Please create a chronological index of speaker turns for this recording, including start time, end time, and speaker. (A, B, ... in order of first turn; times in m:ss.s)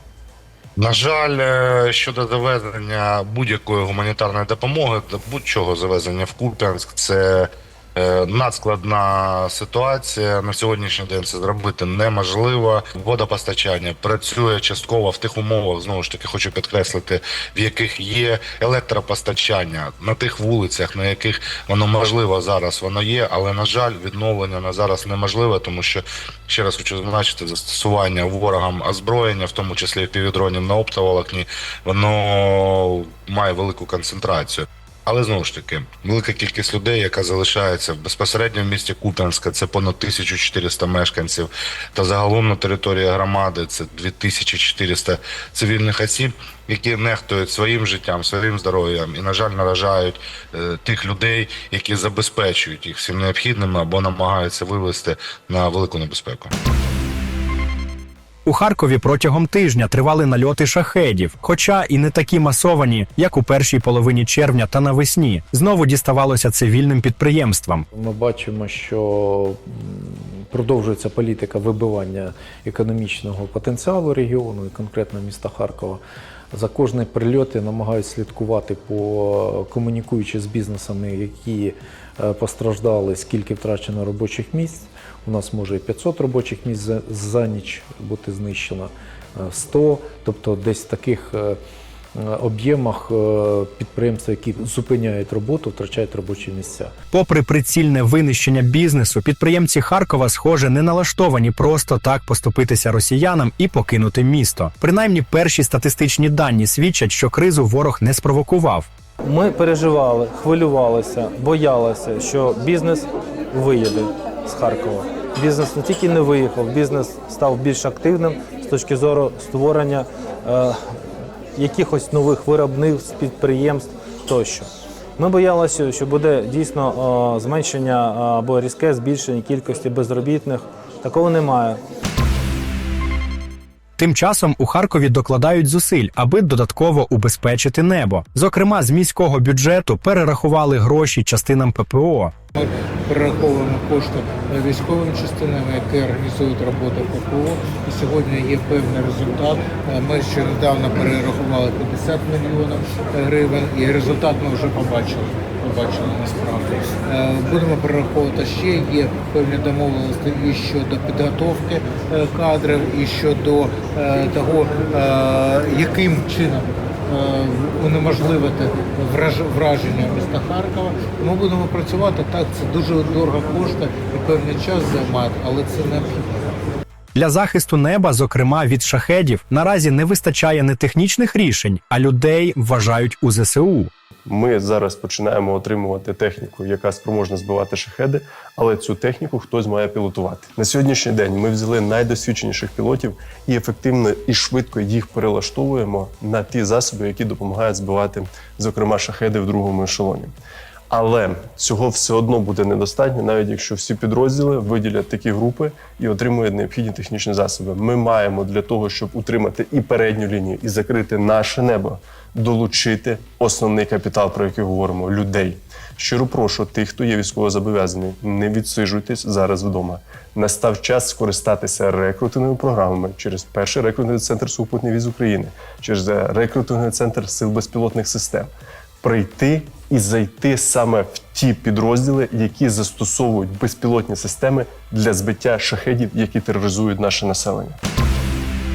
0:00.8-0:56.5 A
0:58.5-1:07.8 B
1:07.9-1:16.0 C
1:16.5-1:31.6 C
1:32.2-1:36.9 C
1:37.1-1:48.9 B
1:49.2-2:01.0 D
2:01.6-2:11.8 D
2:14.0-2:22.3 B
2:22.5-2:56.5 E
2:57.2-3:03.9 B
3:04.3-3:20.4 F
3:20.9-3:48.5 F
3:49.0-3:57.8 F